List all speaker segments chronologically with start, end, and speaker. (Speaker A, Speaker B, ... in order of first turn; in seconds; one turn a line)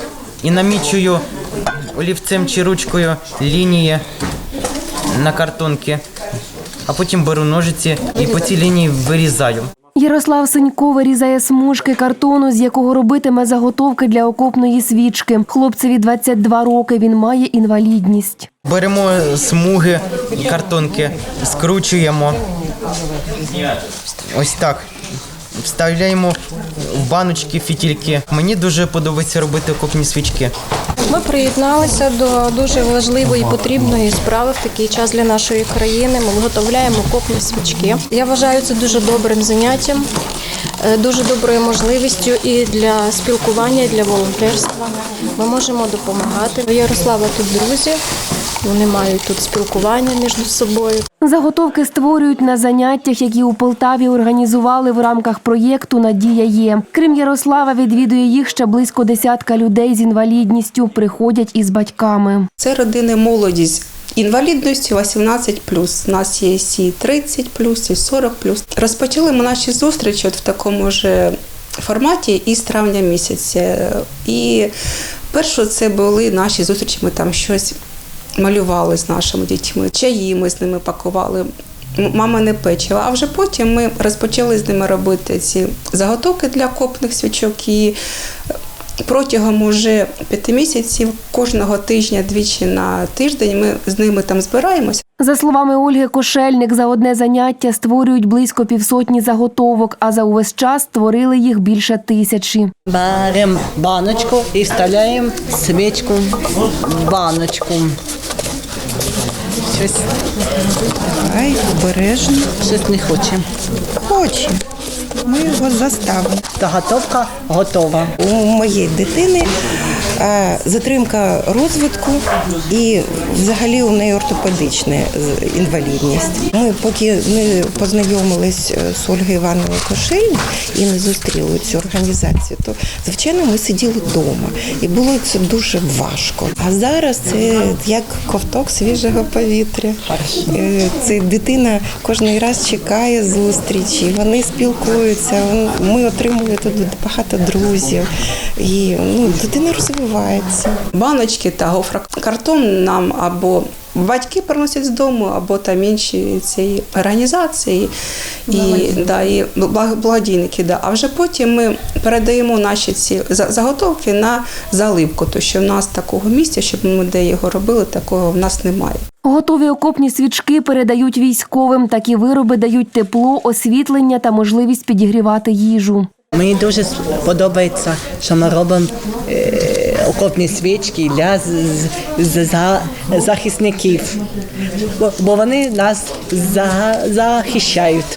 Speaker A: 0.4-1.2
Speaker A: 1.9-4.0
Speaker A: 5.1-6.0
Speaker A: 6.9-9.7
Speaker B: 10.0-18.5
Speaker A: 18.6-22.4
Speaker A: 24.3-24.9
Speaker A: 25.6-30.5
Speaker C: 31.1-40.1
Speaker C: 40.8-48.0
Speaker C: 48.6-51.1
Speaker B: 51.2-62.5
Speaker D: 62.6-74.7
Speaker D: 75.3-77.8
Speaker D: 78.4-88.0
Speaker D: 89.0-95.0
Speaker B: 95.2-102.7
Speaker E: 102.9-106.2
Speaker E: 106.8-107.9
Speaker F: 111.1-112.5
Speaker E: 112.7-113.4
Speaker F: 114.0-114.6
Speaker F: 115.2-116.4
Speaker E: 116.6-117.9
Speaker F: 118.2-119.5
Speaker F: 120.2-150.8
Speaker D: 150.9-157.9
Speaker D: 158.5-169.0
Speaker B: 169.2-176.1
Speaker E: 176.3-184.0
Speaker E: 185.0-188.0